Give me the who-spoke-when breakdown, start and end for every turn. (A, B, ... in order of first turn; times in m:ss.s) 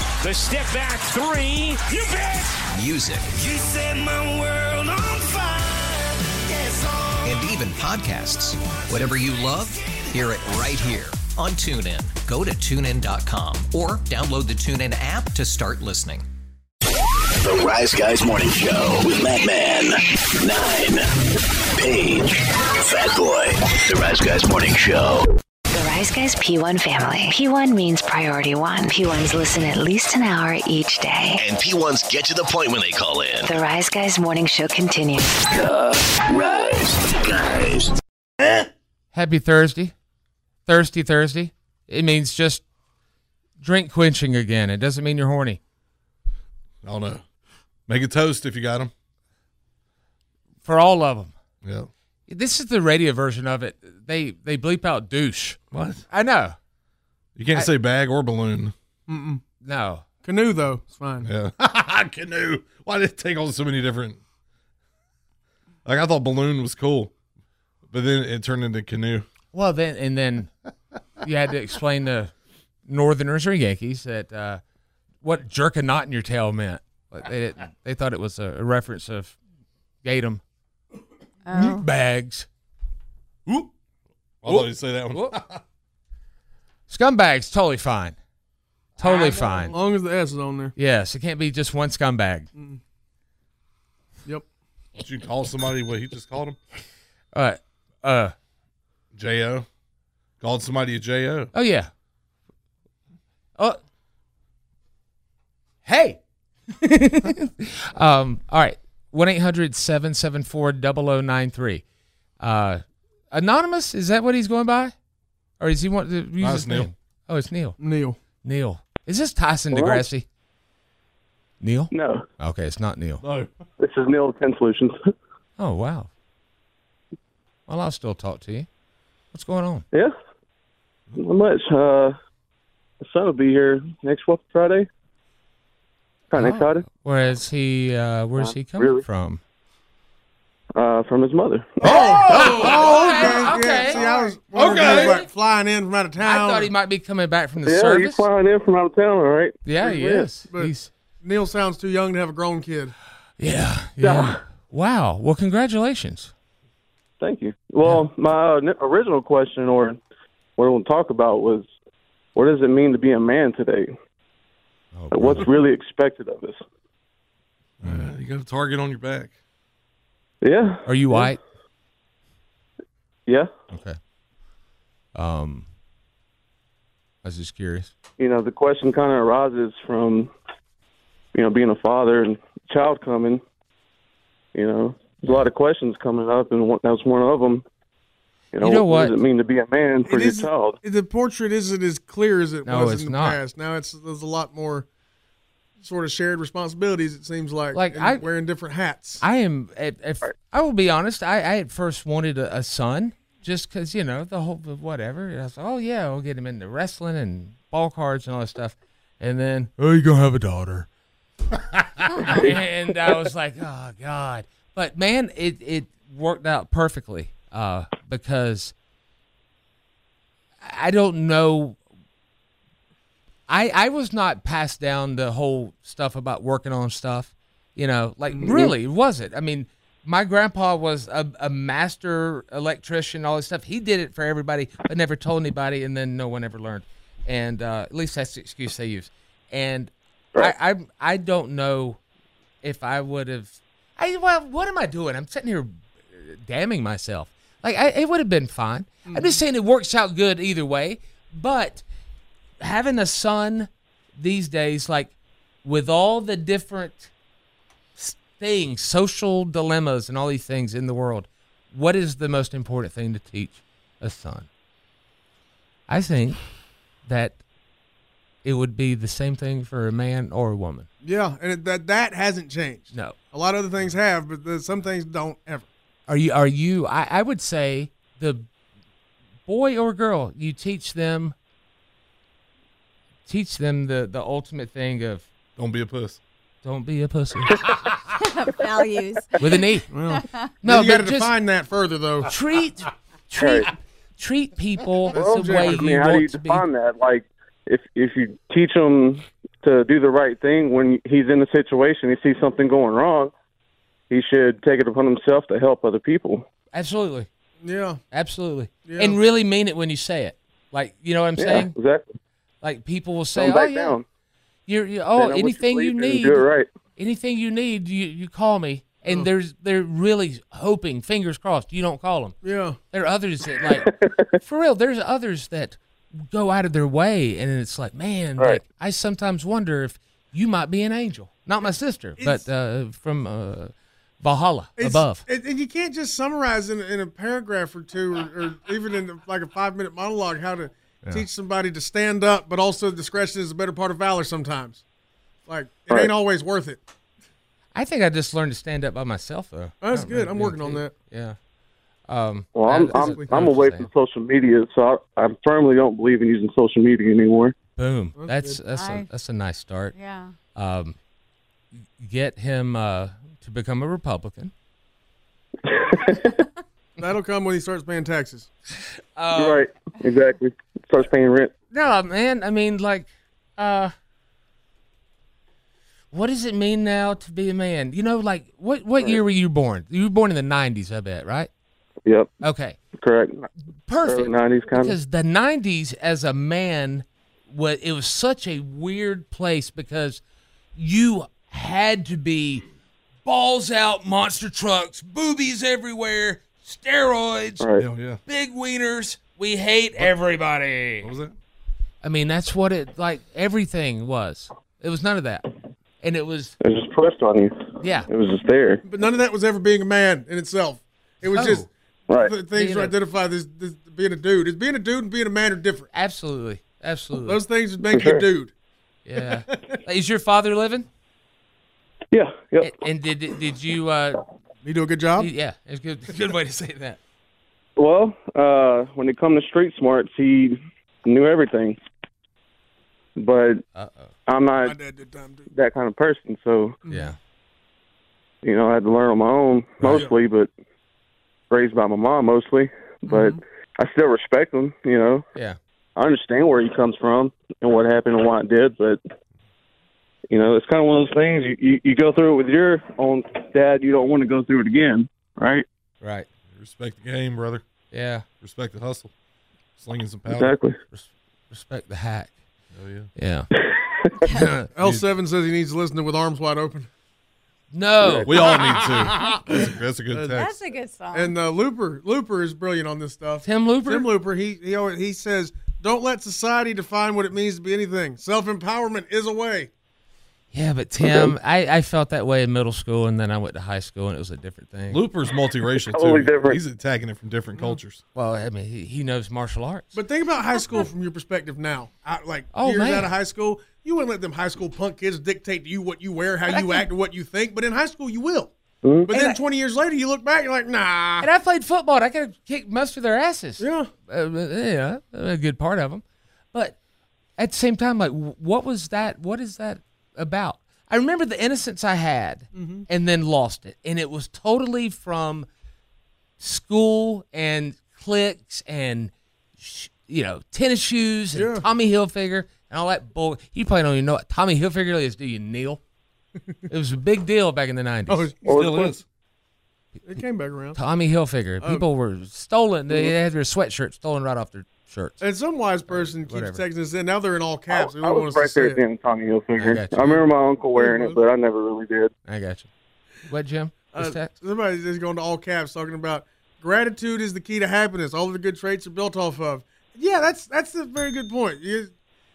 0:00.2-0:02.5 A
0:02.7-0:03.3 B
0:03.3-0:07.3 C
0:07.2-0:16.2 B
0:17.4-0:21.1 D
0:21.8-0:25.3 D
0:25.7-0:31.4 E
0:31.4-0:33.5 D
0:33.5-0:35.4 E
0:35.5-0:38.0 D
0:39.1-0:39.9 F
0:40.7-0:42.6 F
0:43.6-0:45.6 F
0:46.8-0:47.2 G
0:47.9-0:48.9 G
0:50.6-0:51.3 F
0:51.6-0:51.9 G
0:52.3-0:55.6 F
0:55.7-0:56.0 G
0:56.1-0:56.6 F
0:57.4-0:58.7 G
0:59.1-0:59.4 H
0:59.6-1:00.1 F
1:00.2-1:01.3 H
1:01.2-1:04.2 G
1:05.9-1:07.1 G
1:07.9-1:09.2 G
1:09.5-1:10.5 F
1:11.2-1:12.3 F
1:12.9-1:14.6 F
1:15.2-1:19.4 F
1:20.0-1:20.4 F
1:21.5-1:21.9 I
1:21.5-1:22.5 F
1:24.4-1:25.6 G
1:24.5-1:25.4 F
1:26.9-1:28.2 F
1:29.0-1:29.8 F
1:29.0-1:30.7 H
1:29.1-1:29.5 G
1:30.8-1:32.5 F
1:35.0-1:36.6 G
1:37.3-1:38.3 F
1:39.1-1:39.7 G
1:40.4-1:41.5 G
1:41.5-1:41.9 F
1:45.8-1:46.2 F
1:46.7-1:51.8 F
1:52.4-1:54.9 F
1:55.6-1:57.8 F
1:56.4-1:56.9 G
1:57.8-1:58.2 H
1:58.4-2:00.2 F
1:59.7-2:00.0 J
2:01.6-2:03.2 F
2:01.9-2:02.2 J
2:03.2-2:03.5 G
2:03.8-2:05.0 J
2:05.6-2:06.1 F
2:07.7-2:08.7 F
2:09.3-2:09.8 F
2:11.2-2:12.2 J
2:13.0-2:14.9 J
2:16.3-2:16.8 J
2:16.4-2:19.4 F
2:18.4-2:19.0 J
2:20.8-2:22.0 J
2:21.8-2:26.7 H
2:21.8-2:24.1 F
2:22.2-2:23.4 G
2:24.0-2:25.2 G
2:24.6-2:25.3 F
2:26.2-2:28.2 F
2:27.6-2:30.3 J
2:29.6-2:30.9 F
2:30.4-2:32.9 H
2:33.4-2:36.3 F
2:34.0-2:34.4 J
2:37.2-2:40.0 J
2:40.6-2:41.7 J
2:42.4-2:43.9 J
2:45.0-2:45.5 F
2:45.1-2:46.6 J
2:47.8-2:49.3 G
2:47.8-2:48.1 F
2:50.4-2:51.3 J
2:50.9-2:51.4 F
2:53.7-2:54.0 F
2:55.2-2:55.7 F
2:57.2-2:57.9 F
2:58.2-3:00.3 J
3:01.3-3:03.4 J
3:04.6-3:07.6 J
3:08.5-3:10.8 J
3:08.6-3:09.1 F
3:10.1-3:14.9 H
3:12.6-3:13.4 F
3:15.8-3:19.2 H
3:17.7-3:18.2 F
3:19.2-3:30.9 F
3:32.2-3:38.7 F
3:32.3-3:32.7 J
3:40.6-3:41.8 F
3:43.5-4:02.0 F
3:48.3-3:48.7 H
4:02.6-4:11.8 F
4:09.1-4:09.4 H
4:12.6-4:15.1 F
4:15.6-4:17.1 F
4:18.0-4:24.5 F
4:25.9-4:26.4 F
4:27.0-4:27.4 F
4:28.4-4:30.9 F
4:31.0-4:35.7 H
4:32.9-4:33.2 F
4:36.1-4:38.5 F
4:39.5-4:41.4 F
4:43.3-4:45.3 F
4:45.6-4:46.2 G
4:46.6-4:47.6 F
4:48.2-4:49.4 I
4:49.4-4:49.9 F
4:49.9-4:52.3 H
4:50.0-4:50.4 I
4:50.6-4:51.3 F
4:52.2-4:56.6 F
4:53.4-4:53.7 J
4:55.1-4:55.9 H
4:55.1-5:03.3 J
5:04.1-5:06.5 J
5:06.7-5:07.3 F
5:07.6-5:08.0 H
5:08.1-5:11.7 F
5:08.8-5:09.2 H
5:11.4-5:12.1 J
5:12.6-5:14.0 F
5:13.4-5:14.0 J
5:14.7-5:16.4 F
5:15.2-5:16.7 J
5:17.0-5:22.4 F
5:22.4-5:22.8 H
5:22.9-5:35.2 F
5:23.7-5:24.3 J
5:32.2-5:32.5 H
5:34.8-5:44.8 H
5:45.5-5:46.8 H
5:47.7-5:51.4 F
5:49.8-5:50.9 H
5:52.1-5:53.9 F
5:52.6-5:57.6 J
5:52.9-5:53.5 H
5:57.8-5:59.9 F
5:58.2-5:58.6 H
5:58.7-5:59.1 I
5:59.9-6:00.4 I
6:00.6-6:01.0 F
6:02.0-6:04.5 F
6:05.7-6:06.4 J
6:07.0-6:08.5 H
6:09.2-6:09.6 F
6:09.4-6:11.5 J
6:11.7-6:13.9 F
6:16.1-6:21.5 F
6:22.0-6:22.3 J
6:22.4-6:22.8 F
6:23.0-6:23.5 J
6:23.9-6:30.2 F
6:24.1-6:25.0 J
6:30.8-6:32.6 F
6:33.2-6:37.6 F
6:37.6-6:37.8 J
6:37.8-6:38.2 G
6:38.3-6:41.1 F
6:41.0-6:41.3 G
6:42.0-6:45.4 F
6:46.0-6:46.6 F
6:46.6-6:48.8 J
6:47.8-6:48.1 F
6:48.8-6:55.9 H
6:51.3-6:51.7 F
6:52.5-6:52.9 F
6:55.9-6:57.4 F
6:57.2-6:58.5 H
6:57.9-6:58.2 J
6:59.1-7:00.9 F
6:59.3-6:59.8 H
7:02.1-7:02.7 J
7:02.6-7:04.2 F
7:04.6-7:05.3 H
7:05.2-7:07.0 F
7:07.8-7:11.8 J
7:13.2-7:13.6 J
7:13.8-7:14.1 F
7:14.3-7:14.8 J
7:14.6-7:15.5 H
7:15.5-7:16.8 J
7:16.9-7:17.1 H
7:16.9-7:17.2 F
7:18.4-7:20.5 J
7:21.5-7:25.2 J
7:23.1-7:23.4 H
7:26.0-7:29.0 J
7:30.3-7:35.6 J
7:36.0-7:36.3 F
7:36.5-7:37.6 G
7:37.9-7:38.2 F
7:38.4-7:39.1 G
7:39.8-7:40.5 G
7:40.3-7:40.8 J
7:40.9-7:42.3 F
7:42.8-7:43.1 G
7:43.2-7:43.5 F
7:43.7-7:44.2 J
7:44.3-7:44.7 F
7:44.8-7:46.9 H
7:47.7-7:48.4 F
7:48.0-7:48.3 J
7:48.3-7:50.5 G
7:50.3-7:51.4 I
7:51.1-7:59.7 H
7:53.4-7:54.1 F
8:00.5-8:05.0 F
8:04.9-8:08.0 G
8:05.9-8:06.6 J
8:08.2-8:10.0 F
8:09.9-8:18.5 H
8:10.6-8:10.9 I
8:12.5-8:13.1 F
8:16.5-8:16.9 F
8:18.8-8:19.1 J
8:19.1-8:21.3 H
8:19.1-8:19.4 F
8:21.2-8:26.8 F
8:23.6-8:23.9 H
8:27.4-8:35.5 F
8:32.5-8:32.9 H
8:36.4-8:45.8 F
8:41.3-8:41.7 H
8:46.7-8:48.3 F
8:48.1-8:48.5 H
8:48.4-8:49.0 G
8:48.5-8:48.9 J
8:50.0-8:50.8 H
8:50.8-8:55.2 F
8:51.6-8:51.9 H
8:55.2-8:58.8 H
8:55.9-8:56.6 F
8:57.7-9:02.1 J
8:59.6-9:00.2 F
9:00.8-9:01.2 H
9:02.3-9:02.7 F
9:03.3-9:04.3 F
9:03.9-9:11.9 H